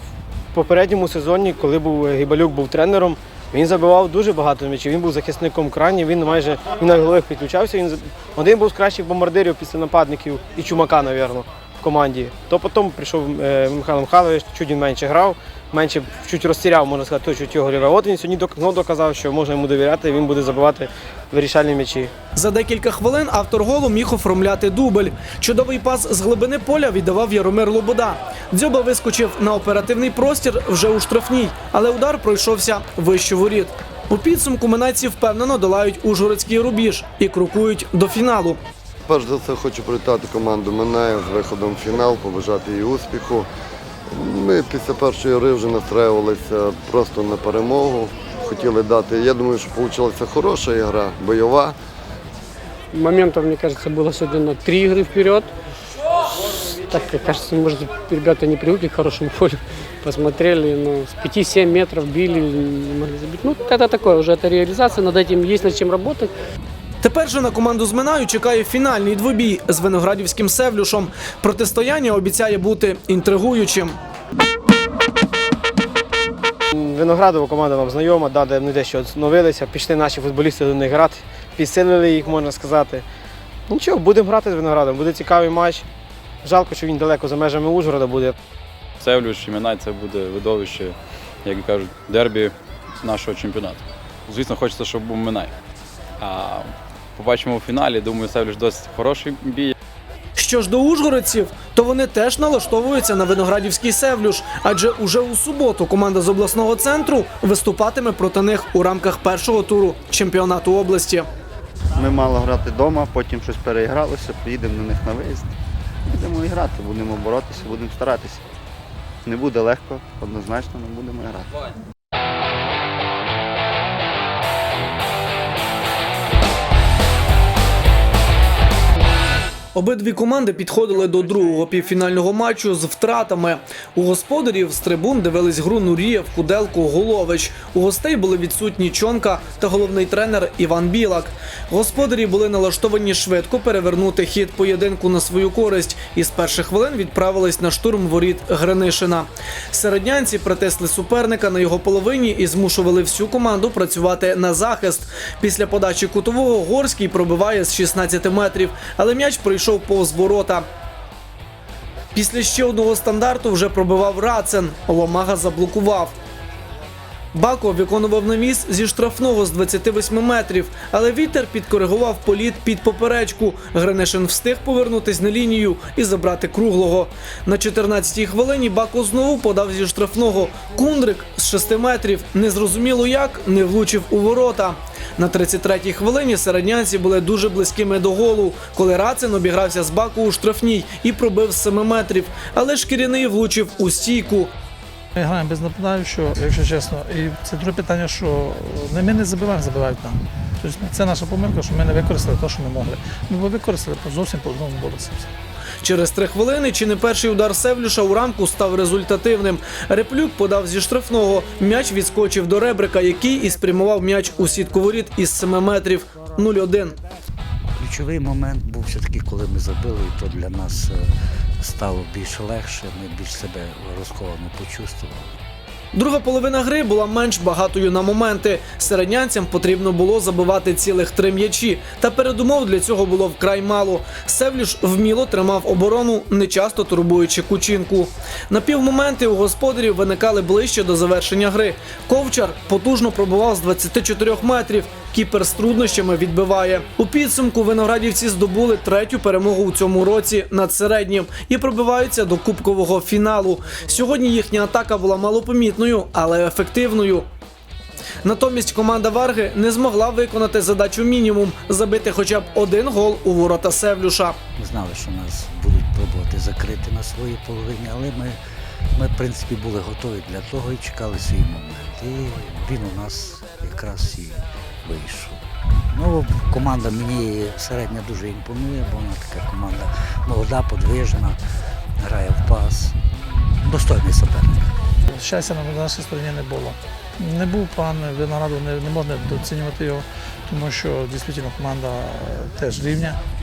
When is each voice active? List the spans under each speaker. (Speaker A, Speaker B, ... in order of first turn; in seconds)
Speaker A: 0.5-22.1, 76.7-83.0, 83.7-85.9, 86.4-88.3
Speaker B: 22.4-38.6, 67.0-74.0, 100.4-111.3, 129.7-160.7, 162.1-166.2, 167.3-194.5, 205.8-217.0, 225.9-257.3, 258.2-264.4
Speaker C: 39.1-43.5, 44.1-51.8
Speaker D: 52.9-55.5, 56.3-66.3
Speaker E: 89.0-95.5, 96.2-99.7
Speaker F: 112.0-115.5, 116.1-118.5, 119.2-121.5
Speaker G: 195.2-205.3, 285.1-293.2
Speaker H: 217.8-225.3, 264.6-268.4, 268.9-281.4, 282.0-284.7